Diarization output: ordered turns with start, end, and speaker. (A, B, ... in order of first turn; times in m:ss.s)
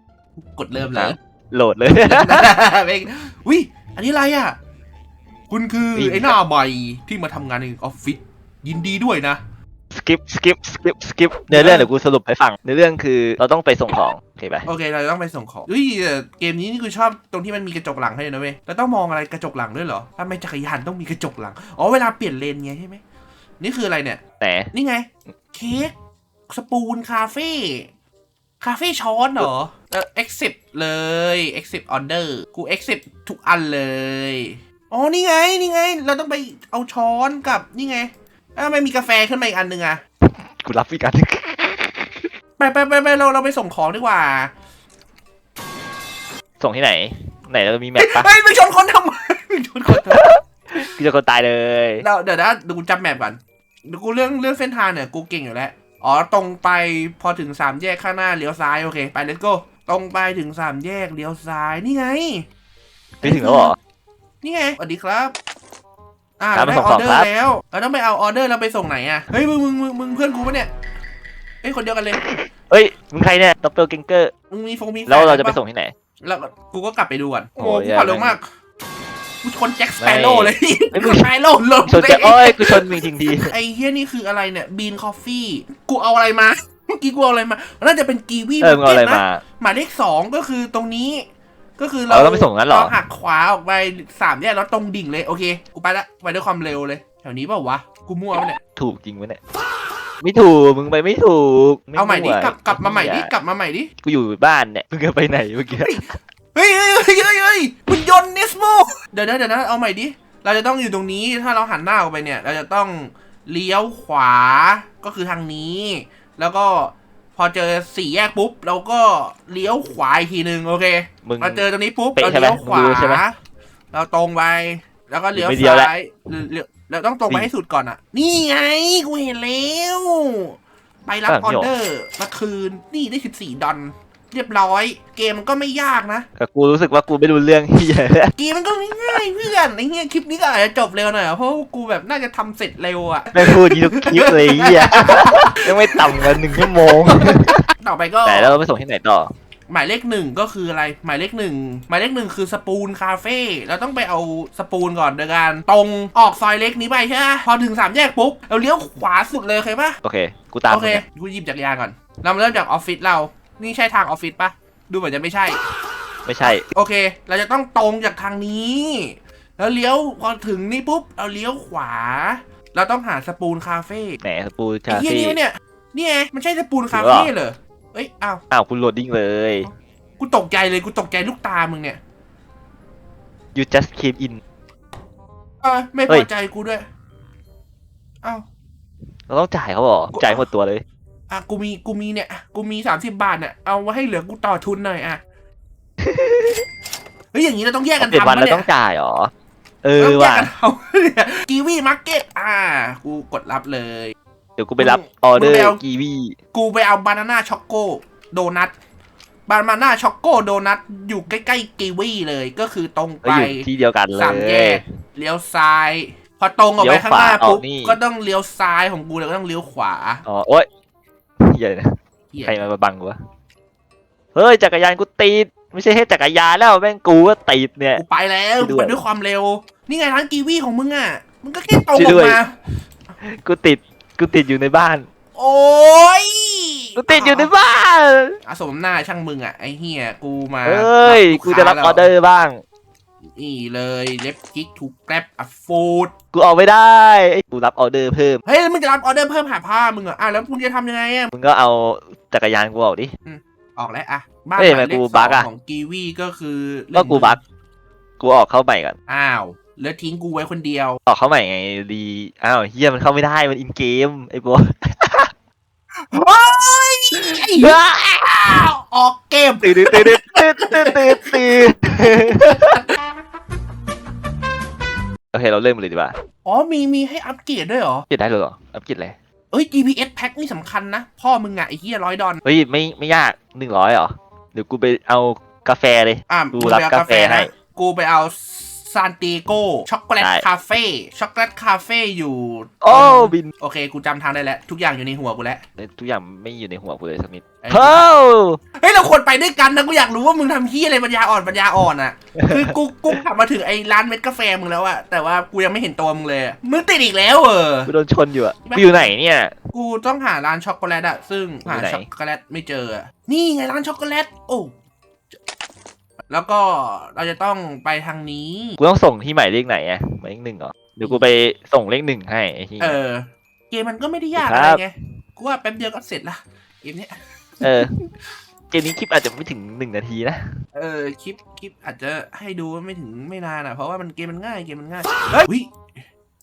0:00.4-0:01.2 A
0:00.9-0:02.5 B
0:02.0-0:04.6 A
0:05.5-0:09.4 A
0:05.9-0:06.4 B
0:09.9-0:14.7 B
0:11.5-0:11.9 A
0:14.6-0:23.0 A
0:23.6-0:24.2 A
0:24.4-0:24.7 B
0:24.7-0:25.9 A
0:26.5-0:27.9 A
0:28.6-0:40.0 A
0:40.2-0:42.3 B
0:42.6-0:44.5 A
0:46.6-0:48.3 B
0:48.0-0:50.2 A
0:49.9-0:52.0 B
0:52.0-1:02.4 A
1:03.2-1:03.8 B
1:03.2-1:03.8 A
1:04.4-1:05.4 A
1:06.4-1:10.7 A
1:06.5-1:07.3 B
1:11.6-1:12.2 A
1:12.2-1:14.3 B
1:14.5-1:15.6 A
1:15.1-1:15.9 B
1:16.2-1:18.4 A
1:17.6-1:18.4 B
1:19.4-1:31.3 A
1:20.0-1:21.3 B
1:21.8-1:23.5 B
1:28.6-1:29.4 B
1:31.8-1:38.6 A
1:32.1-1:32.9 B
1:38.8-1:39.4 B
1:40.2-1:43.3 B
1:42.0-1:43.9 A
1:44.0-1:46.0 B
1:45.7-2:03.4 A
2:01.2-2:01.6 B
2:02.2-2:03.2 B
2:03.9-2:16.3 A
2:05.3-2:05.9 B
2:11.3-2:11.7 B
2:16.4-2:18.3 B
2:18.4-2:28.6 A
2:23.3-2:27.6 B
2:28.2-2:29.3 B
2:29.7-2:40.0 A
2:40.0-2:41.0 B
2:40.7-2:45.6 A
2:46.2-2:46.6 B
2:46.4-2:54.2 A
2:54.2-2:55.4 B
2:54.9-2:58.4 A
2:56.9-2:57.3 B
2:58.5-2:59.7 B
2:59.6-3:02.0 A
3:03.5-3:04.4 B
3:05.6-3:06.8 A
3:09.3-3:10.8 B
3:10.1-3:10.5 A
3:11.3-3:15.2 A
3:16.0-3:16.6 B
3:17.3-3:18.7 A
3:18.0-3:19.3 B
3:19.8-3:20.5 B
3:20.0-3:24.1 A
3:24.6-3:26.4 B
3:24.8-3:25.8 A
3:26.5-3:28.7 A
3:29.5-3:40.2 A
3:33.2-3:34.8 B
3:36.8-3:38.0 B
3:40.2-3:40.7 B
3:41.4-3:43.2 B
3:42.3-3:42.6 A
3:44.3-3:48.0 B
3:47.9-3:52.5 A
3:48.6-3:49.0 B
3:51.7-3:52.4 B
3:53.2-3:55.1 B
3:55.3-3:57.5 A
3:57.0-3:58.4 B
3:58.4-4:02.1 A
4:00.6-4:02.6 B
4:03.4-4:06.1 A
4:06.3-4:08.4 B
4:08.4-4:11.3 A
4:11.3-4:13.1 B
4:13.2-4:17.4 A
4:14.6-4:15.5 B
4:16.9-4:17.4 B
4:18.2-4:19.0 B
4:19.1-4:21.0 A
4:21.1-4:25.3 B
4:26.1-4:32.8 A
4:27.6-4:28.1 B
4:29.6-4:32.8 B
4:35.3-4:36.2 B
4:36.4-4:38.0 A
4:38.1-4:39.1 B
4:39.5-4:42.4 A
4:42.4-4:47.5 B
4:46.3-4:55.6 A
4:50.2-4:50.4 B
4:52.8-4:53.5 B
4:55.8-4:58.6 B
4:57.6-4:58.1 A
4:58.8-5:07.9 A
5:02.4-5:03.2 B
5:07.9-5:09.6 B
5:08.6-5:09.1 A
5:09.7-5:14.7 A
5:11.6-5:12.1 B
5:16.3-5:18.8 A
5:18.8-5:23.0 B
5:22.8-5:27.9 A
5:24.4-5:24.8 B
5:27.6-5:27.9 B
5:28.7-5:30.5 B
5:30.7-5:36.0 A